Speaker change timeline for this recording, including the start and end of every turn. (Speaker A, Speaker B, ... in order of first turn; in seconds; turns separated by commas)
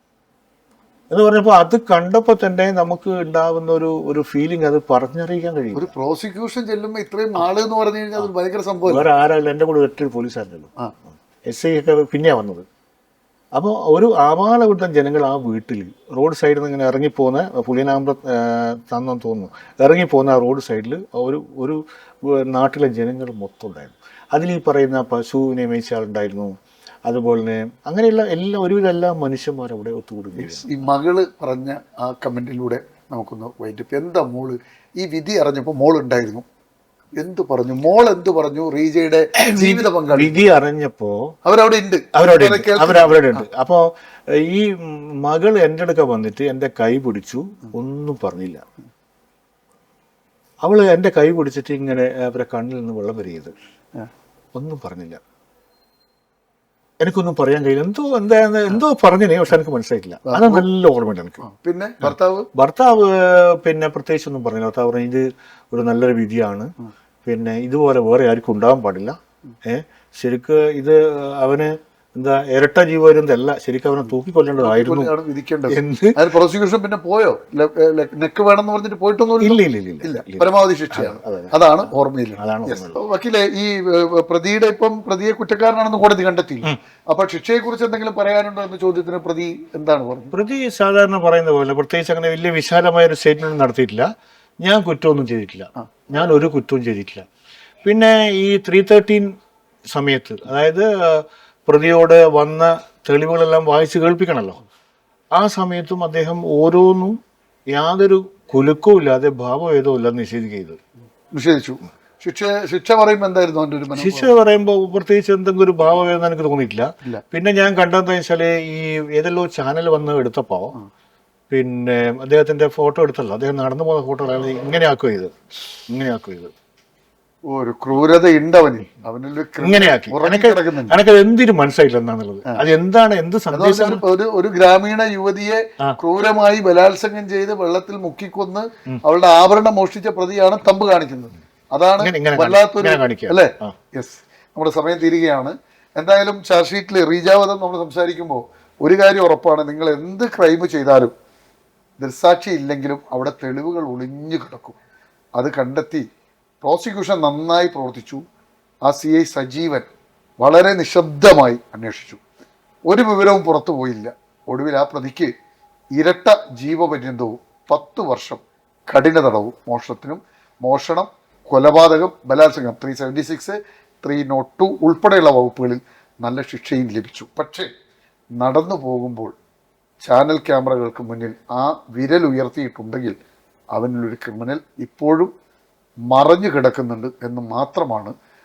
Speaker A: 1.1-5.9, Speaker B: 5.8-9.1, Speaker A: 8.9-10.7, Speaker A: 11.5-12.7, Speaker A: 13.6-26.5, Speaker A: 27.1-30.9, Speaker B: 30.4-36.5, Speaker B: 37.2-40.4, Speaker A: 39.4-41.4, Speaker B: 41.4-43.4, Speaker A: 42.1-48.6, Speaker A: 50.6-53.5, Speaker A: 54.5-55.2, Speaker A: 57.0-61.4, Speaker B: 60.3-60.7, Speaker B: 61.4-62.5, Speaker A: 62.0-66.7, Speaker A: 67.2-75.1, Speaker B: 74.6-90.3, Speaker A: 75.7-76.2, Speaker A: 79.4-81.5, Speaker A: 82.4-83.0, Speaker A: 90.3-94.1, Speaker A: 94.6-97.2, Speaker A: 97.8-99.3, Speaker A: 99.9-104.6, Speaker A: 105.3-107.2, Speaker A: 107.7-110.8, Speaker B: 111.3-114.3, Speaker A: 113.9-120.8, Speaker A: 121.5-126.5, Speaker B: 127.5-131.0, Speaker A: 129.6-134.0, Speaker B: 133.5-151.1, Speaker A: 142.0-143.8, Speaker B: 152.0-154.8, Speaker B: 155.4-156.1, Speaker B: 156.6-158.2, Speaker B: 158.8-159.9, Speaker B: 160.4-162.2, Speaker B: 162.9-165.3, Speaker B: 165.9-177.7, Speaker B: 178.4-179.3, Speaker B: 180.0-183.2, Speaker B: 183.7-185.3, Speaker B: 186.1-188.1